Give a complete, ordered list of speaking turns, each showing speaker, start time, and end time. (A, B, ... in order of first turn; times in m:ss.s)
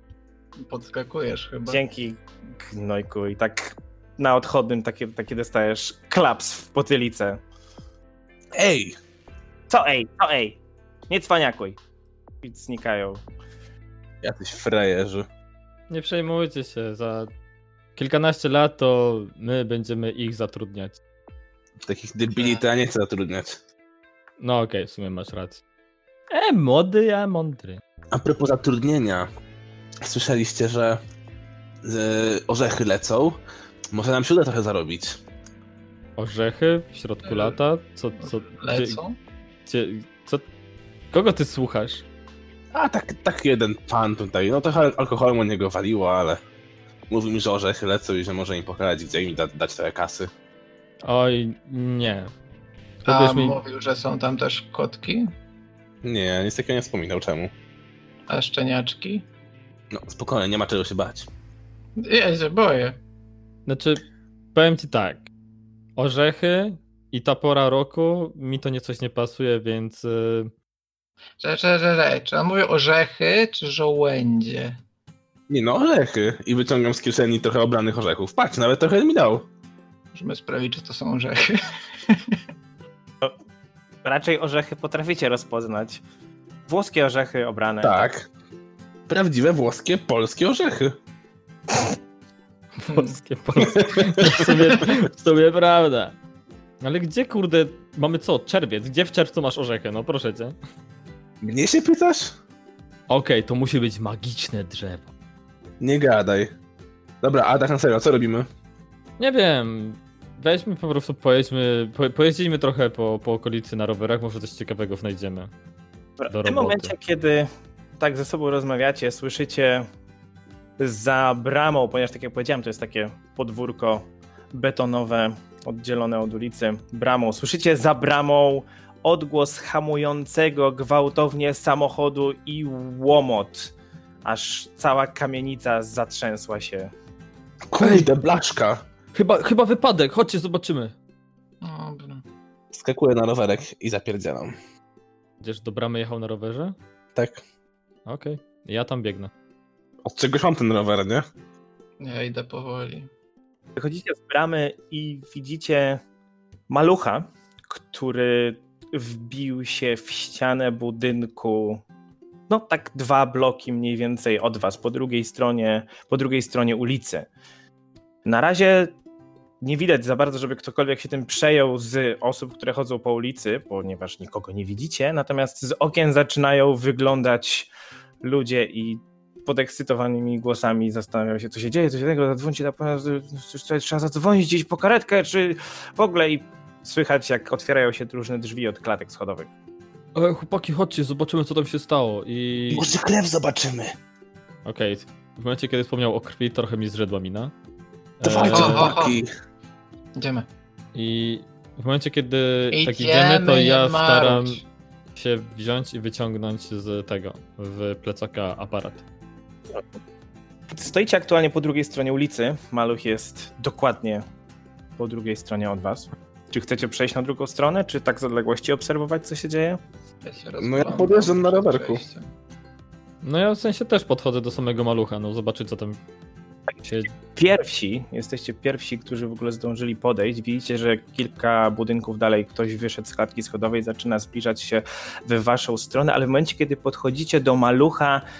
0:00.6-0:01.8 A
0:01.7-0:07.4 B
0:08.5-0:09.0 C
0:09.7-0:11.8 B
0:12.4-0:13.2 B
0:14.2-0:15.2 C
0:15.9-0:17.3 D
0:18.0-0:21.0 D
0:21.8-0:23.6 C
0:24.4-0:25.6 D
0:26.3-0:27.8 D
0:28.1-0:29.3 C
0:30.0-0:31.0 C
0:31.8-0:33.4 C
0:33.9-0:35.2 C
0:36.2-0:39.0 D
0:37.3-0:37.6 A
0:38.2-0:39.2 A
0:39.6-0:40.4 D
0:41.1-0:42.0 D
0:42.7-0:46.4 C
0:47.1-0:50.3 C
0:51.0-0:52.3 D
0:53.0-0:53.6 D
0:53.1-0:55.3 A
0:56.0-0:57.5 C
0:58.3-0:59.2 A
0:59.9-1:01.3 C
1:02.0-1:03.0 A
1:03.7-1:04.0 D
1:04.5-1:05.3 D
1:06.0-1:10.5 D
1:11.4-1:14.8 A
1:15.5-1:19.4 C
1:20.1-1:22.4 A
1:24.0-1:26.0 B
1:26.7-1:28.1 B
1:27.8-1:28.3 C
1:29.1-1:31.0 C
1:32.8-1:36.1 D
1:33.6-1:34.6 C
1:36.8-1:40.5 D
1:41.4-1:42.3 C
1:43.1-1:45.1 D
1:45.8-1:46.5 C
1:47.2-1:48.5 C
1:49.2-1:55.5 D
1:56.2-1:59.9 B
1:56.3-1:56.9 D
2:00.8-2:13.7 B
2:14.2-2:16.9 B
2:17.7-2:18.8 C
2:17.8-2:18.1 D
2:19.1-2:20.9 D
2:21.6-2:22.2 A
2:22.7-2:24.6 C
2:25.4-2:26.8 D
2:27.1-2:27.4 C
2:28.0-2:29.3 D
2:30.0-2:31.2 C
2:32.0-2:33.1 A
2:33.8-2:36.0 B
2:36.7-2:41.8 B
2:42.5-2:47.3 B
2:48.2-2:48.9 B
2:49.6-2:57.7 B
2:58.2-3:09.5 B
3:10.1-3:12.9 D
3:12.7-3:13.9 C
3:14.6-3:17.5 D
3:18.2-3:18.9 D
3:18.2-3:19.3 C
3:18.2-3:19.2 A
3:20.2-3:20.5 A
3:20.9-3:24.6 D
3:22.7-3:24.6 A
3:25.2-3:29.0 D
3:30.7-3:34.2 B
3:35.0-3:39.8 B
3:40.2-3:42.3 A
3:40.6-3:42.0 C
3:43.2-3:46.0 D
3:46.8-3:47.1 D
3:47.3-3:58.2 B